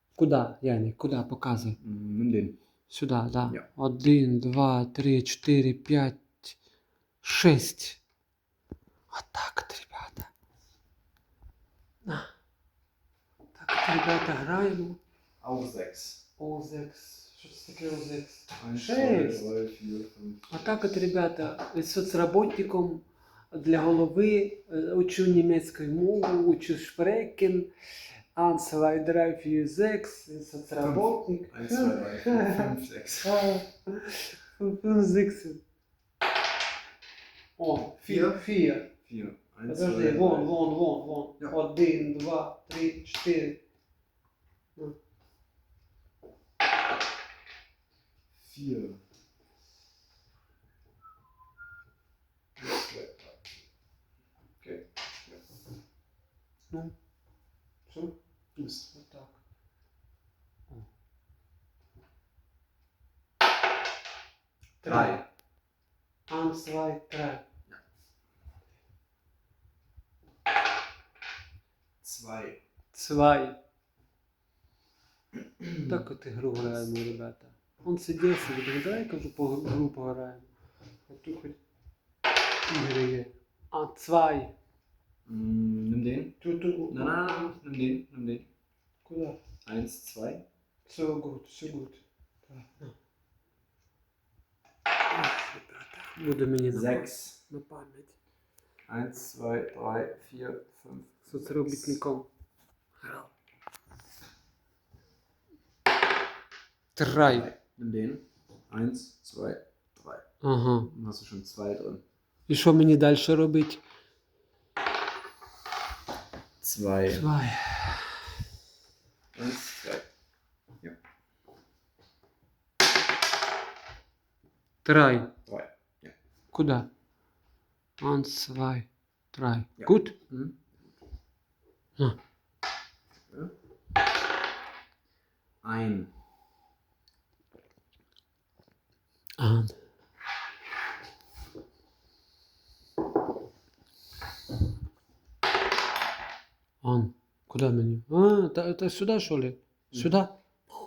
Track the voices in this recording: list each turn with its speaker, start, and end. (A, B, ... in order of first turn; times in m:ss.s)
0:00.2-0:01.8 A
0:01.8-0:02.6 B
0:02.9-0:06.6 A
0:07.2-0:08.0 A
0:09.1-0:10.3 A
0:13.6-0:15.0 A
0:15.4-0:16.2 B
0:16.4-0:19.5 A
0:18.6-0:20.6 B
0:20.5-0:27.7 A
0:28.3-0:32.7 A
0:30.8-0:33.4 B
0:33.2-0:35.6 A
0:37.6-0:38.9 A
0:38.0-0:38.4 B
0:39.0-0:40.5 B
0:39.7-0:43.6 A
0:48.3-0:49.0 B
0:52.6-0:53.4 B
0:54.6-0:55.4 B
0:57.9-0:59.4 A
0:58.6-0:58.9 B
1:04.8-1:05.2 A
1:04.8-1:05.2 B
1:06.3-1:07.4 A
1:12.0-1:12.6 B
1:12.9-1:13.6 A
1:15.6-1:16.0 B
1:15.8-1:20.5 A
1:21.1-1:21.6 A
1:22.7-1:24.5 A
1:25.3-1:28.5 B
1:26.4-1:27.6 A
1:29.0-1:29.4 A
1:29.6-1:30.4 B
1:30.9-1:32.9 A
1:35.1-1:38.1 A
1:36.7-1:37.4 B
1:38.9-1:42.0 B
1:41.3-1:42.3 A
1:43.0-1:43.3 A
1:47.0-1:47.5 A
1:47.2-1:50.2 B
1:50.4-1:50.9 A
1:50.9-1:52.0 B
1:52.5-1:53.8 A
1:56.6-1:57.3 B
1:57.1-1:58.2 A
1:59.3-2:00.1 B
2:04.8-2:05.3 A
2:05.5-2:06.2 B
2:06.5-2:06.9 A
2:08.0-2:10.2 A
2:09.8-2:10.9 B
2:15.6-2:16.1 B
2:19.4-2:19.8 A
2:26.8-2:30.3 A